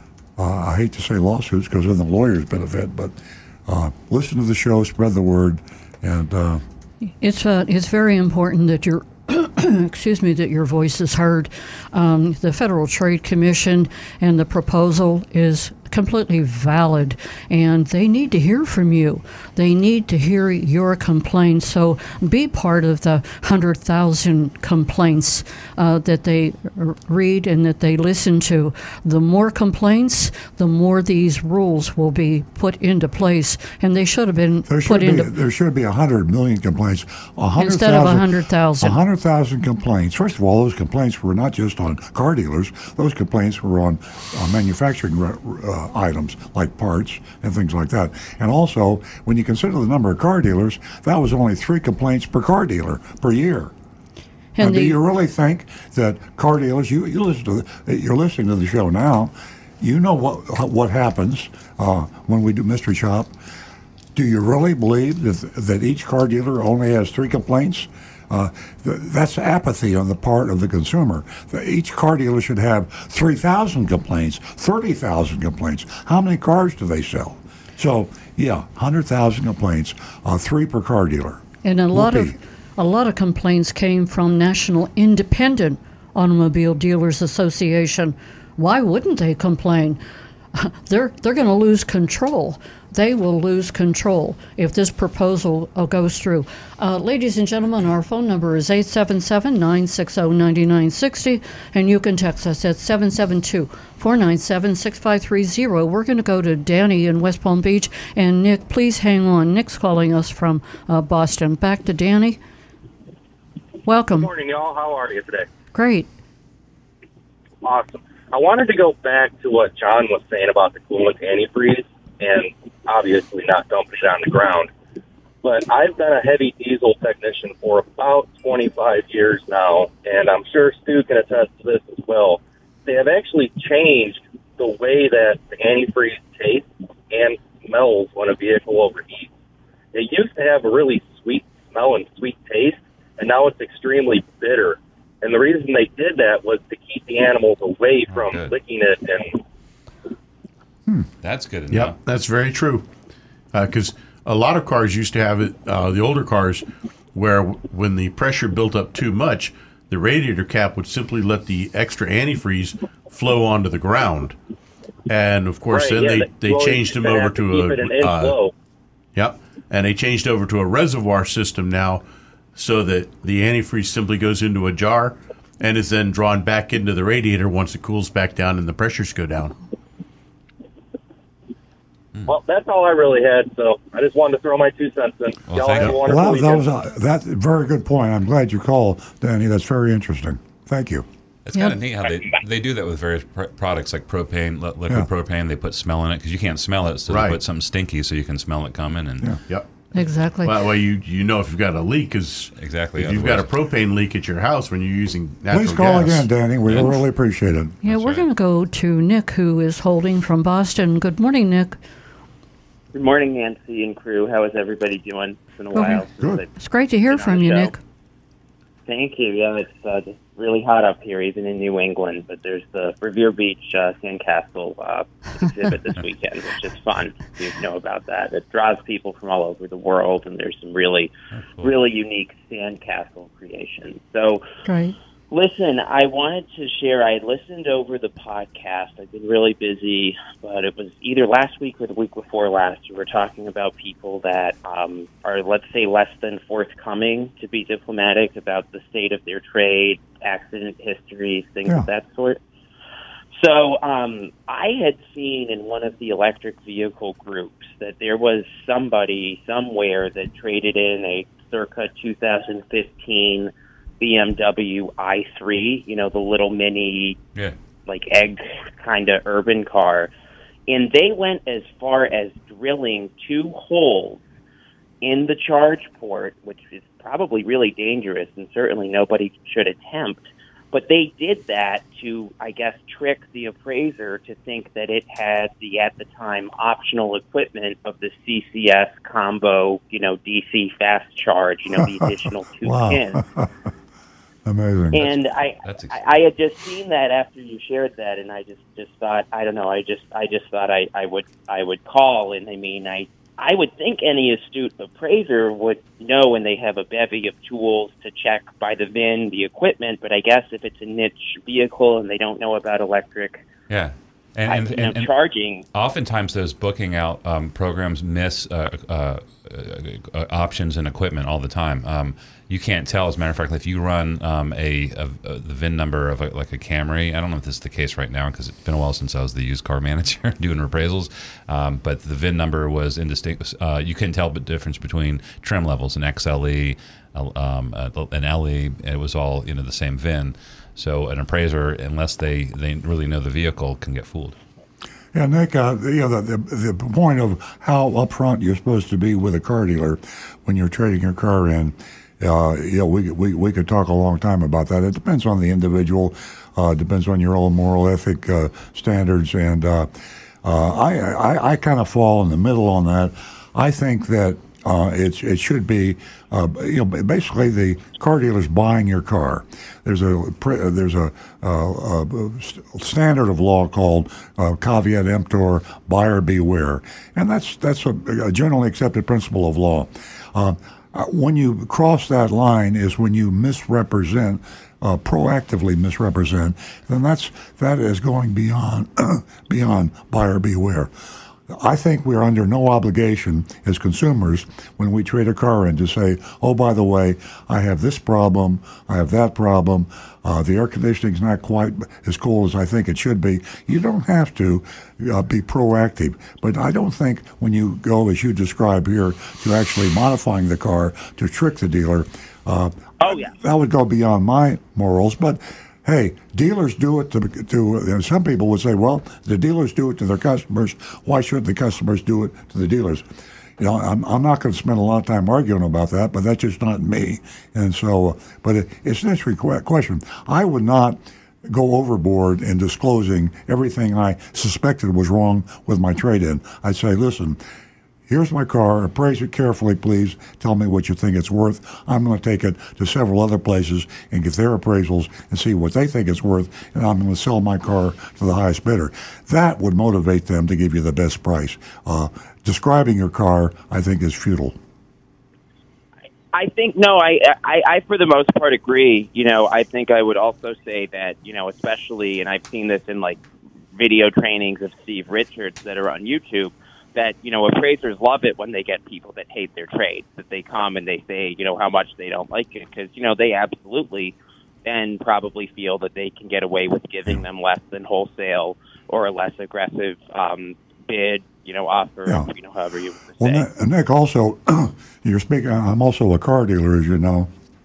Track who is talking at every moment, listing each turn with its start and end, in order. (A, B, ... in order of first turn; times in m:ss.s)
0:00.4-0:03.1 A
0:03.6-0:06.6 A
0:07.2-0:35.3 B
0:34.7-0:53.7 A
0:37.6-0:39.0 B
0:54.5-0:55.0 B
0:54.6-1:03.3 A
1:04.1-1:21.4 A
1:21.6-1:30.0 B
1:21.9-1:22.4 A
1:30.5-1:52.4 B
1:53.8-1:54.3 B
1:54.1-1:55.5 C
1:55.7-1:56.1 B
1:57.6-2:04.7 C
2:05.4-2:19.3 C
2:19.9-2:29.4 C
2:28.1-2:28.5 D
2:31.2-2:32.0 D
2:31.7-2:32.9 E
2:33.5-2:44.4 E
2:45.1-2:48.4 E
2:45.7-2:48.5 C
2:49.1-2:52.0 E
2:52.6-2:59.5 E
3:02.2-3:06.6 C
3:05.5-3:06.0 D
3:06.0-3:11.1 A
3:11.4-3:19.3 D
3:17.1-3:17.4 E
3:19.9-3:20.5 B
3:20.4-3:26.3 E
3:22.5-3:23.5 D
3:25.5-3:27.8 A
3:26.7-3:27.0 D
3:27.8-3:31.8 B
3:27.8-3:28.2 D
3:32.9-3:36.5 F
3:35.7-3:36.0 B
3:36.2-3:36.4 A
3:36.6-3:37.8 B
3:37.1-3:37.7 F
3:38.9-3:54.4 F
3:51.4-3:51.7 D
3:54.6-3:54.9 B
3:55.3-4:12.4 F
4:13.3-4:27.2 F
4:27.8-4:30.1 F
4:30.7-4:34.2 F
4:35.0-4:53.2 F
4:51.7-4:52.1 A
4:52.6-4:53.5 A
4:54.4-4:55.1 A
4:54.9-5:13.4 F
4:55.6-4:56.0 D
5:13.7-5:15.1 D
5:14.5-5:15.6 F
5:15.7-5:44.4 D
5:45.1-5:59.9 A
6:00.4-6:30.9 A
6:31.5-7:03.0 A
6:53.0-6:53.3 F
7:03.6-7:17.4 A
7:18.1-7:34.6 A
7:36.3-7:43.2 F
7:43.7-8:03.5 F
8:03.2-8:07.3 A